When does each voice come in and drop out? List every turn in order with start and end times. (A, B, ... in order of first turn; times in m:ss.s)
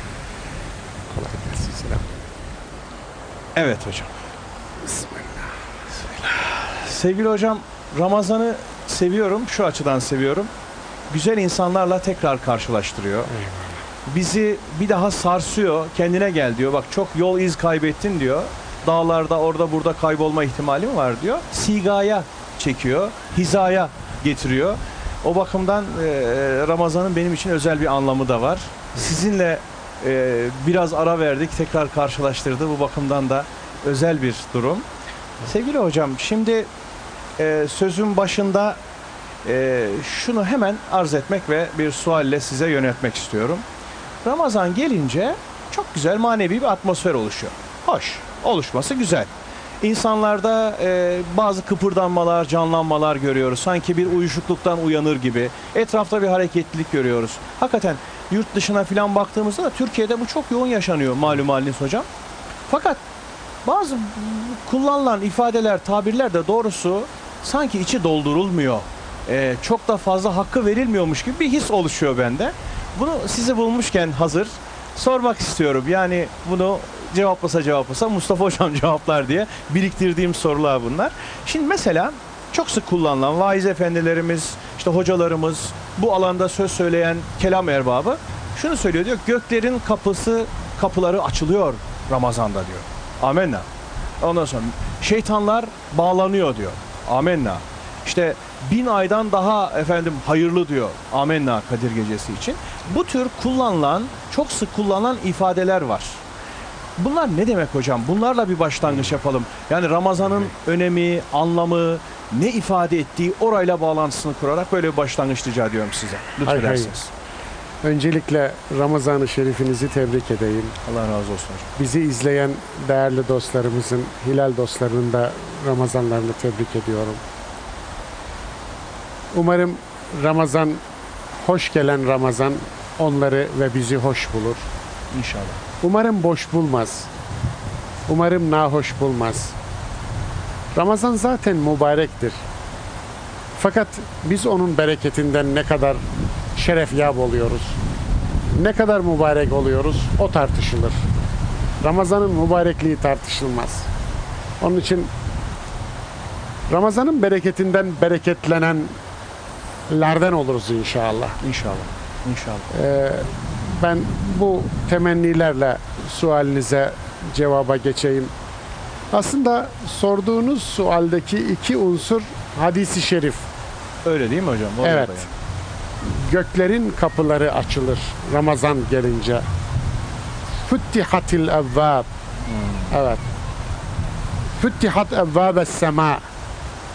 0:01.1-0:02.1 A
0:03.5-0:04.1 B
0:04.8-0:06.1 A
0:06.3-0:10.5 B
0:11.1-0:13.3 B
0:13.3-0:13.8 A
0:14.0-0:34.8 B
0:35.4-0:36.7 B
0:37.4-0:38.8 B
0:39.4-0:43.6 B
0:44.2-0:49.3 B
0:49.8-1:02.1 B
1:02.7-1:03.0 B
1:03.6-1:33.6 B
1:34.2-1:46.2 B
1:47.0-1:57.1 B
1:56.4-1:56.9 A
1:57.8-2:00.7 A
2:00.8-2:01.7 B
2:01.8-2:07.2 A
2:09.3-2:10.8 A
2:11.4-2:14.6 A
2:15.1-2:15.6 B
2:15.8-2:17.1 A
2:18.1-2:19.5 A
2:20.7-2:22.4 A
2:23.6-2:26.0 A
2:26.5-2:27.8 A
2:28.6-2:31.0 A
2:31.8-2:33.9 A
2:34.6-2:35.1 A
2:36.7-2:38.9 A
2:39.9-2:41.4 A
2:41.4-2:42.7 B
2:42.7-2:48.3 A
2:49.1-2:53.5 A
2:54.0-2:55.3 B
2:54.8-2:55.3 A
2:56.0-2:59.4 A
3:00.6-3:02.1 A
3:02.5-3:02.9 B
3:02.9-3:03.2 A
3:04.6-3:06.2 A